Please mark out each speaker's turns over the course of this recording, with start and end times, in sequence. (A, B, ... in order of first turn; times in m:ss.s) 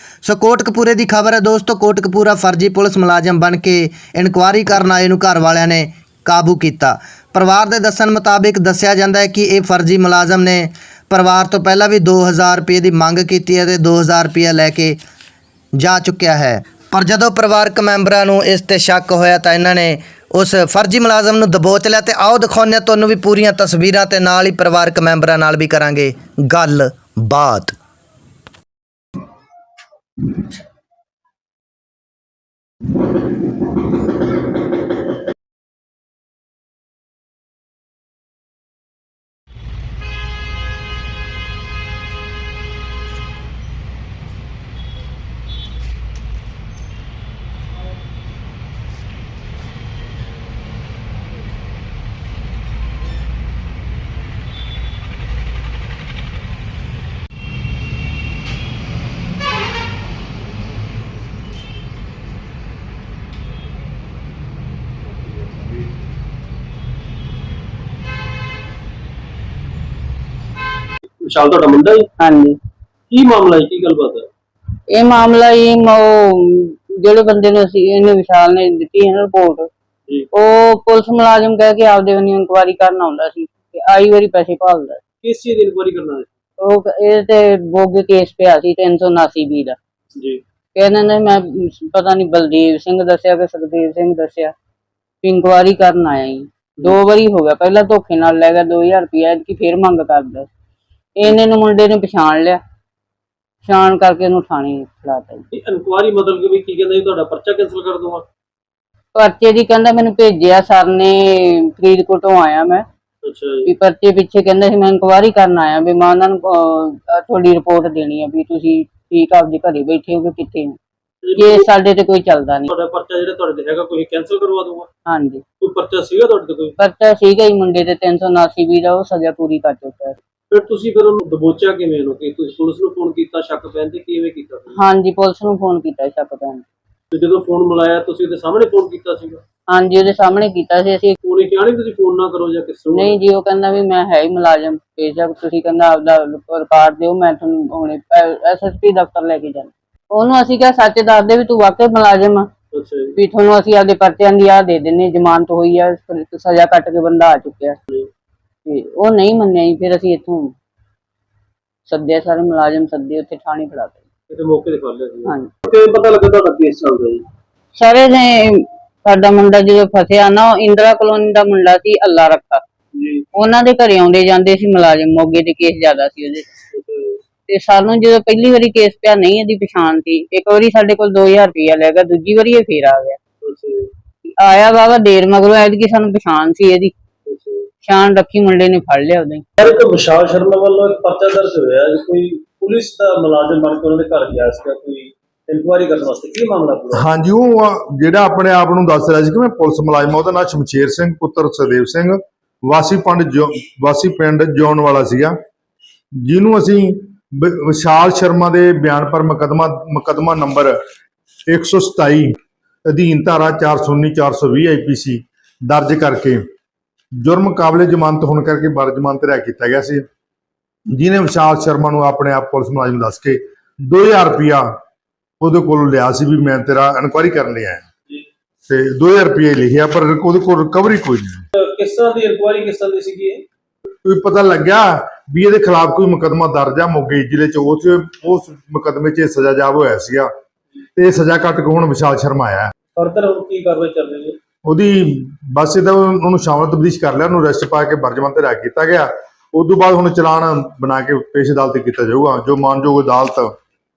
0:00.2-0:15.0 A
0:15.8-0:27.8 A
1:11.2-1:12.1 B
1:12.2-1:12.6 C
1:13.1-1:14.3 B
1:14.9-1:19.7 C
1:20.3-1:25.0 C
1:25.2-1:26.3 B
1:26.6-1:29.8 C
1:30.2-1:30.4 B
1:30.8-1:34.5 C
1:35.2-1:40.5 C
1:41.2-1:42.6 C
1:43.6-1:45.4 C
1:45.5-1:48.2 B
1:49.1-1:52.8 C
1:53.2-1:53.7 B
1:53.6-2:00.8 C
2:01.2-2:01.7 B
2:01.4-2:02.7 C
2:02.7-2:04.9 B
2:05.1-2:05.4 C
2:05.6-2:06.8 B
2:06.8-2:10.2 C
2:10.5-2:14.8 B
2:14.7-2:16.6 C
2:17.1-2:19.4 B
2:19.7-2:21.2 C
2:21.2-2:23.2 B
2:22.9-2:32.5 C
2:32.7-2:33.2 B
2:33.2-2:37.8 C
2:38.7-2:40.5 C
2:41.9-2:44.0 C
2:44.3-2:47.3 B
2:47.8-2:52.6 C
2:53.0-2:53.3 B
2:53.3-2:56.5 C
2:56.7-2:57.2 B
2:57.5-3:03.2 C
3:03.4-3:03.9 B
3:04.4-3:06.9 C
3:07.3-3:07.7 B
3:07.8-3:09.4 C
3:09.6-3:17.0 B
3:17.5-3:22.2 D
3:22.8-3:25.3 D
3:26.3-3:30.7 D
3:31.5-3:32.3 D
3:32.9-3:36.4 D
3:37.2-3:40.0 D
3:41.0-3:43.4 D
3:43.9-3:44.6 D
3:45.4-3:47.8 D
3:48.7-3:51.4 D
3:51.6-3:53.4 B
3:54.0-4:00.3 D
4:01.2-4:02.7 D
4:03.0-4:04.4 B
4:04.7-4:13.5 D